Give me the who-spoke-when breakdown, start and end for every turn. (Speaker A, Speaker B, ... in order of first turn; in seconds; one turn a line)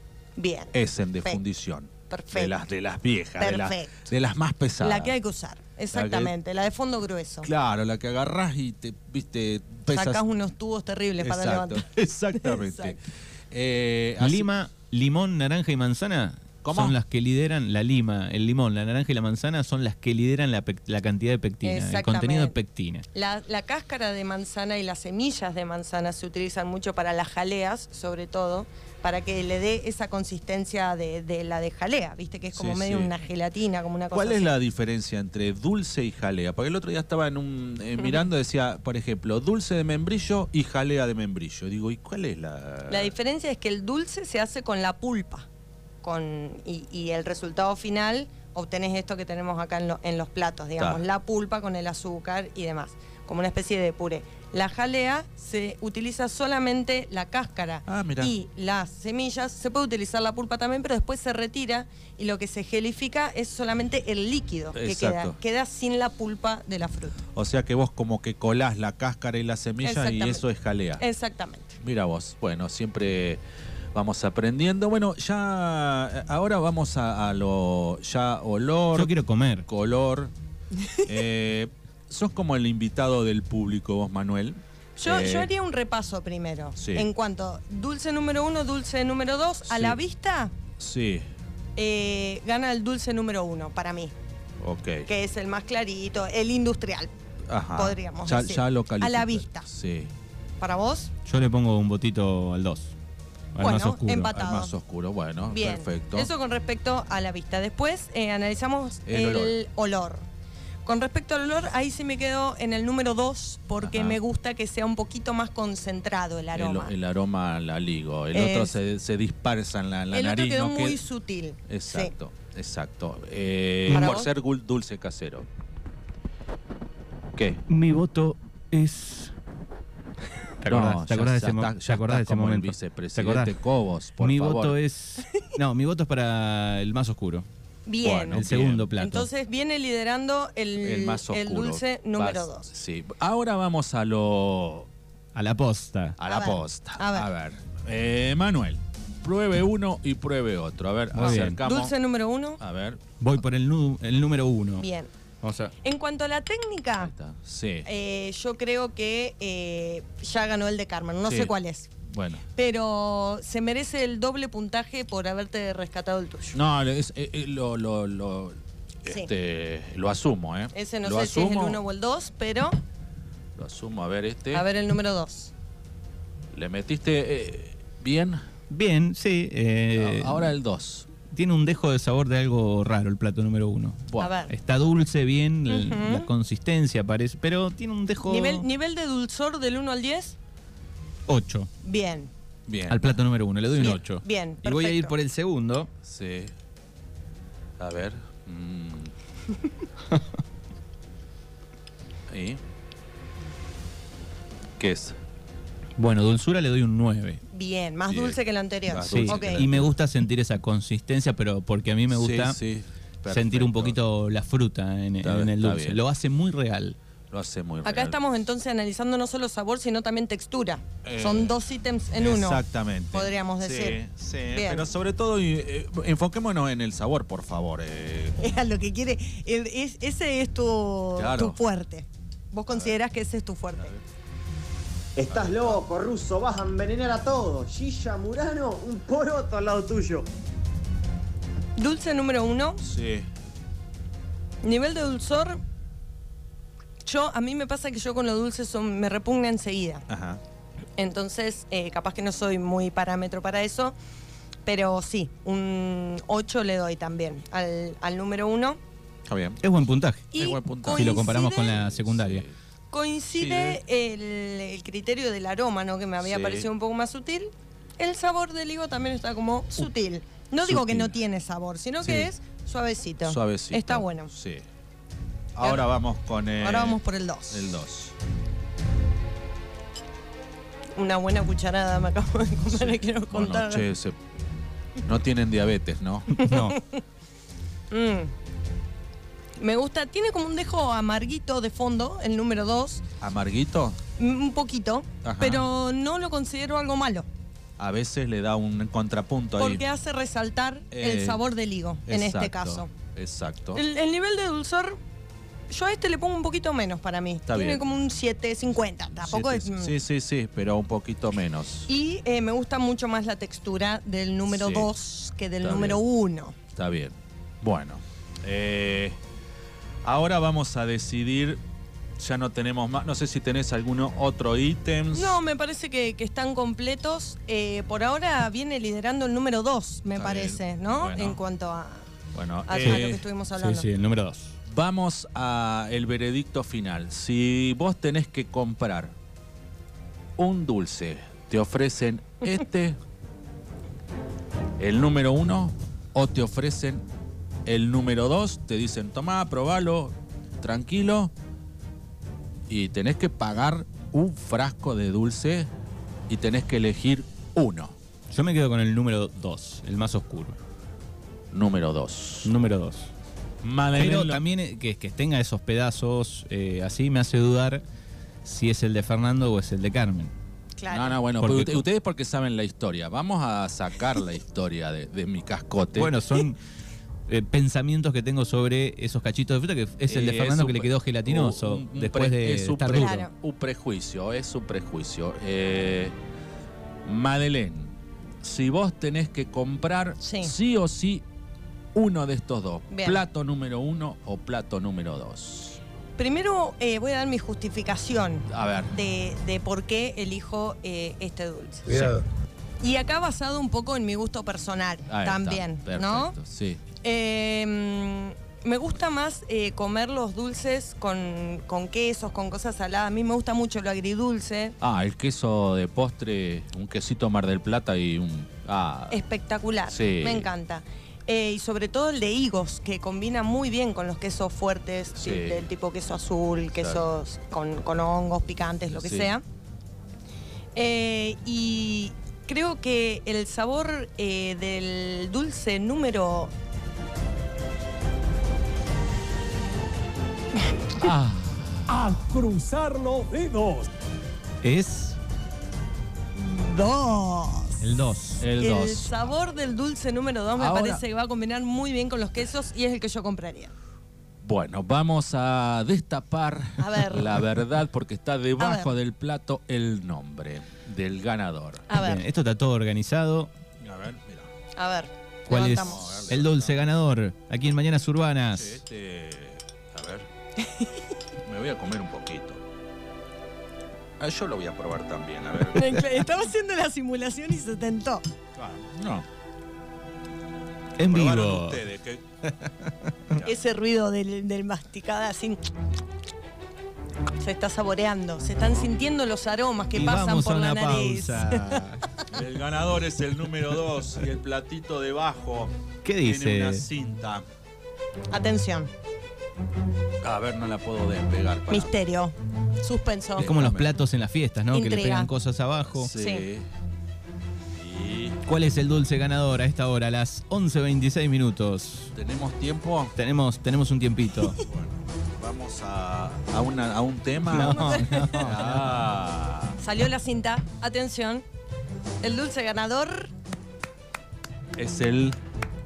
Speaker A: 0.3-1.4
Speaker B: 0.7-5.1
Speaker A: 2.1-2.5
Speaker A: 3.4-4.1
Speaker A: 4.8-7.5
Speaker B: 5.9-6.3
Speaker B: 7.4-10.2
Speaker A: 9.9-11.8
Speaker B: 11.2-13.0
Speaker A: 12.4-12.9
Speaker B: 13.5-14.5
Speaker C: 14.2-23.0
Speaker B: 16.6-16.9
Speaker A: 21.6-22.5
Speaker A: 23.1-34.5
Speaker B: 32.5-33.1
Speaker B: 34.1-43.1
Speaker A: 42.9-45.5
Speaker A: 46.0-67.2
Speaker B: 50.8-51.0
Speaker B: 57.9-58.3
Speaker B: 64.7-65.4
Speaker B: 67.3-71.0
Speaker A: 69.8-70.4
Speaker A: 71.0-71.8
Speaker B: 71.8-73.4
Speaker B: 73.9-79.1
Speaker C: 78.9-79.7
Speaker B: 79.7-80.3
Speaker A: 80.8-81.1
Speaker B: 81.0-85.5
Speaker A: 85.0-90.5
Speaker B: 86.8-87.1
Speaker B: 89.7-90.0
Speaker B: 90.8-91.2
Speaker A: 91.8-94.1
Speaker B: 94.6-95.1
Speaker A: 95.1-97.1
Speaker B: 97.5-100.1
Speaker A: 97.7-99.7
Speaker A: 100.6-101.1
Speaker C: 101.2-102.9
Speaker C: 103.5-104.3
Speaker A: 103.6-104.7
Speaker B: 104.3-106.3
Speaker A: 105.5-110.2
Speaker B: 109.0-109.5
Speaker A: 110.8-116.9
Speaker B: 113.8-114.2
Speaker B: 116.5-121.0
Speaker A: 118.3-118.8
Speaker A: 120.1-122.1
Speaker B: 121.7-125.5
Speaker C: 123.9-124.1
Speaker A: 123.9-124.3
Speaker B: 127.3-127.6
Speaker C: 127.7-129.3
Speaker C: 130.6-133.6
Speaker B: 130.7-134.8
Speaker C: 134.2-137.5
Speaker A: 137.8-138.4
Speaker B: 138.0-138.9
Speaker C: 138.3-139.3
Speaker A: 139.0-142.7
Speaker B: 140.8-144.9
Speaker C: 145.3-146.2
Speaker B: 146.2-151.9
Speaker A: 146.2-147.3
Speaker C: 151.1-151.6
Speaker A: 151.2-152.6
Speaker B: 152.6-153.0
Speaker C: 153.2-154.9
Speaker A: 154.8-155.1
Speaker C: 155.4-155.7
Speaker A: 155.8-157.1
Speaker B: 157.0-157.9
Speaker A: 157.8-161.9
Speaker B: 161.2-162.4
Speaker A: 162.6-166.6
Speaker B: 166.5-171.8
Speaker A: 170.7-172.8
Speaker B: 173.6-174.6
Speaker A: 174.5-175.5
Speaker B: 176.5-178.4
Speaker C: 178.7-180.5
Speaker B: 179.9-181.1
Speaker C: 181.3-188.7
Speaker B: 184.1-184.3
Speaker A: 184.2-184.5
Speaker A: 185.7-186.3
Speaker A: 188.3-190.3
Speaker C: 191.3-191.7
Speaker A: 191.8-192.3
Speaker B: 192.7-194.0
Speaker C: 192.9-195.9
Speaker A: 193.8-195.1
Speaker B: 196.0-196.5
Speaker B: 197.8-199.1
Speaker B: 202.3-202.6
Speaker B: 204.8-205.2
Speaker C: 206.0-207.4
Speaker A: 207.5-209.7
Speaker B: 208.1-209.9
Speaker C: 209.1-212.6
Speaker B: 212.1-214.0
Speaker C: 213.3-217.0
Speaker B: 215.2-216.0
Speaker B: 217.3-218.2
Speaker A: 217.8-224.0
Speaker B: 221.0-221.6
Speaker B: 222.1-228.4
Speaker A: 224.5-224.9
Speaker A: 228.4-233.9
Speaker B: 231.2-231.6
Speaker D: 235.2-240.3
Speaker B: 235.3-235.8
Speaker A: 241.8-242.8
Speaker B: 242.8-243.3
Speaker A: 244.6-245.6
Speaker A: 247.0-250.1
Speaker B: 250.1-250.4
Speaker A: 251.0-253.9
Speaker A: 254.6-258.8
Speaker B: 259.3-259.6
Speaker C: 259.6-260.3
Speaker A: 260.3-261.8
Speaker B: 260.3-262.5
Speaker C: 260.9-262.4
Speaker A: 262.9-274.3
Speaker B: 263.3-263.8
Speaker B: 266.2-266.7
Speaker B: 270.6-271.1
Speaker B: 272.0-272.3
Speaker B: 273.2-274.6
Speaker B: 275.5-277.0
Speaker A: 276.6-277.7
Speaker B: 277.5-278.1
Speaker A: 280.9-283.9
Speaker B: 282.7-284.2
Speaker B: 285.0-286.4
Speaker C: 286.3-286.8
Speaker A: 286.4-287.0
Speaker A: 287.9-288.3
Speaker A: 289.6-293.0
Speaker B: 293.2-294.0
Speaker A: 294.2-297.3
Speaker B: 295.2-295.6
Speaker B: 297.8-299.8
Speaker A: 299.6-302.9
Speaker B: 300.9-301.4
Speaker B: 302.1-303.8
Speaker A: 303.7-305.0
Speaker A: 305.7-309.9
Speaker B: 307.5-307.8
Speaker B: 309.1-311.9
Speaker A: 311.9-316.6
Speaker B: 314.5-314.9
Speaker B: 315.6-316.0
Speaker B: 316.7-319.2
Speaker B: 320.0-321.6
Speaker B: 322.2-325.4
Speaker A: 325.1-332.0
Speaker B: 330.1-331.4
Speaker B: 332.3-333.2
Speaker A: 332.7-333.9
Speaker C: 333.6-334.5
Speaker B: 334.7-339.1
Speaker B: 340.4-343.0
Speaker B: 344.8-347.0
Speaker B: 347.6-351.3
Speaker B: 352.7-355.7
Speaker B: 356.3-357.9
Speaker C: 358.3-360.6
Speaker B: 361.5-362.5
Speaker C: 362.4-363.1
Speaker B: 363.6-364.4
Speaker C: 363.9-367.8
Speaker C: 368.4-370.3
Speaker A: 370.8-371.2
Speaker B: 370.9-376.2
Speaker C: 371.4-371.8
Speaker C: 375.9-376.6
Speaker C: 377.3-383.3
Speaker B: 380.1-386.1
Speaker A: 382.9-383.3
Speaker B: 387.0-391.2
Speaker A: 390.2-390.5
Speaker B: 391.9-395.8
Speaker A: 392.9-393.2
Speaker A: 396.2-402.1
Speaker B: 398.5-398.9
Speaker B: 401.9-402.2
Speaker A: 402.8-406.4
Speaker B: 405.1-406.8
Speaker A: 407.0-414.8
Speaker B: 414.8-419.2
Speaker A: 419.1-429.4
Speaker B: 419.9-420.5
Speaker B: 425.1-425.7
Speaker B: 426.8-427.0
Speaker B: 428.9-429.3
Speaker A: 430.7-436.5
Speaker B: 441.0-441.9
Speaker E: 441.9-443.9
Speaker D: 442.3-443.8
Speaker C: 444.6-445.2
Speaker A: 446.3-447.8
Speaker C: 447.8-448.4
Speaker B: 448.4-449.3
Speaker A: 448.6-453.7
Speaker B: 450.6-451.0
Speaker B: 454.4-461.9
Speaker A: 456.8-457.4
Speaker A: 458.6-458.9
Speaker A: 461.9-462.2
Speaker C: 461.9-463.5
Speaker B: 463.8-464.5
Speaker A: 464.8-466.3
Speaker C: 465.5-468.8
Speaker B: 465.5-466.8
Speaker B: 468.6-470.3
Speaker A: 470.6-470.9
Speaker B: 471.4-472.6
Speaker B: 474.2-476.3
Speaker A: 475.7-478.2
Speaker B: 478.6-479.2
Speaker C: 481.0-481.8
Speaker B: 481.1-482.2
Speaker C: 482.4-483.3
Speaker A: 483.4-485.6
Speaker A: 487.4-491.8
Speaker C: 489.9-492.0
Speaker B: 492.3-497.4
Speaker C: 496.0-496.9
Speaker A: 498.3-498.9
Speaker B: 500.2-501.9
Speaker A: 501.7-503.5
Speaker B: 503.4-503.9
Speaker C: 503.4-506.1
Speaker A: 504.7-505.3
Speaker B: 505.8-506.7
Speaker A: 506.1-506.5
Speaker B: 507.7-508.4
Speaker C: 508.4-512.1
Speaker B: 512.1-513.1
Speaker C: 513.1-514.6
Speaker B: 514.6-519.8
Speaker C: 517.5-518.9
Speaker A: 517.5-518.5
Speaker A: 519.8-521.4
Speaker A: 522.2-523.3
Speaker B: 524.8-525.4